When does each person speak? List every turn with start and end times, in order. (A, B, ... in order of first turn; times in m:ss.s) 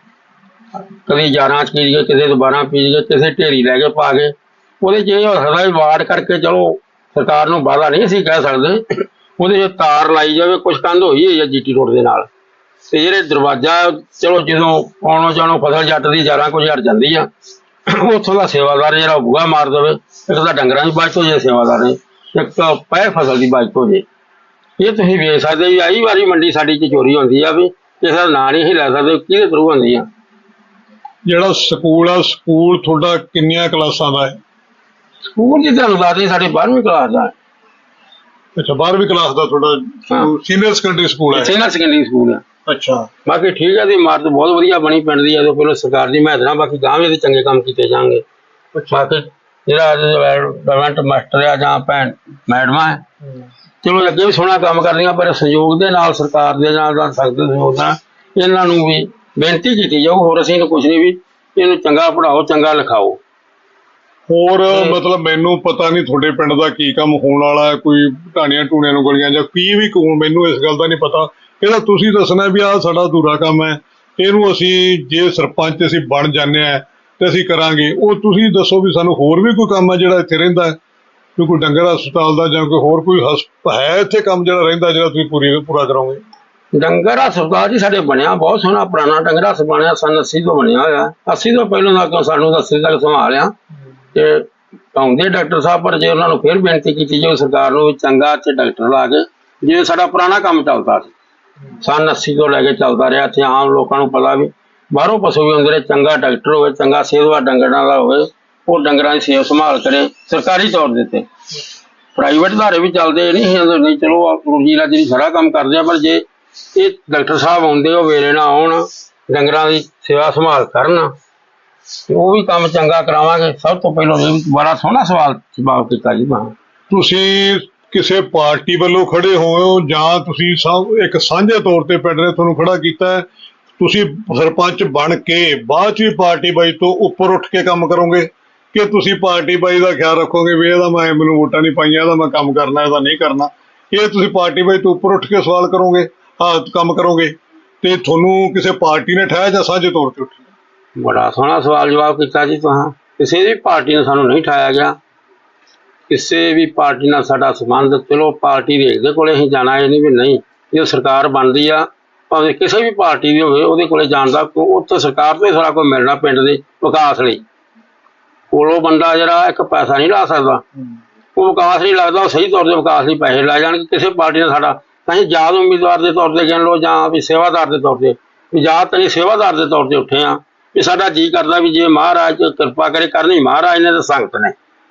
0:01.0-0:12.3 A
0:12.9-0:17.3 A
0:17.8-0:24.0 A
0:24.8-0:30.0 A
0:31.2-0:34.4 B
0:35.3-0:37.3 A
0:38.6-0:41.5 B
0:41.3-0:42.4 A
0:42.6-0:43.1 B
0:43.2-0:48.2 A
0:48.9-0:53.0 A
0:53.8-1:03.2 A
1:04.3-1:20.8 B
1:04.7-1:05.0 A
1:21.4-1:26.2 B
1:26.7-1:33.5 A
1:34.1-1:41.1 A
1:41.8-1:51.3 A
1:52.1-2:01.1 A
2:02.1-2:06.5 A
2:06.9-2:13.2 B
2:13.8-2:30.5 B
2:31.0-2:35.0 A
2:36.1-2:47.4 A
2:48.5-2:50.6 A
2:51.3-3:04.5 A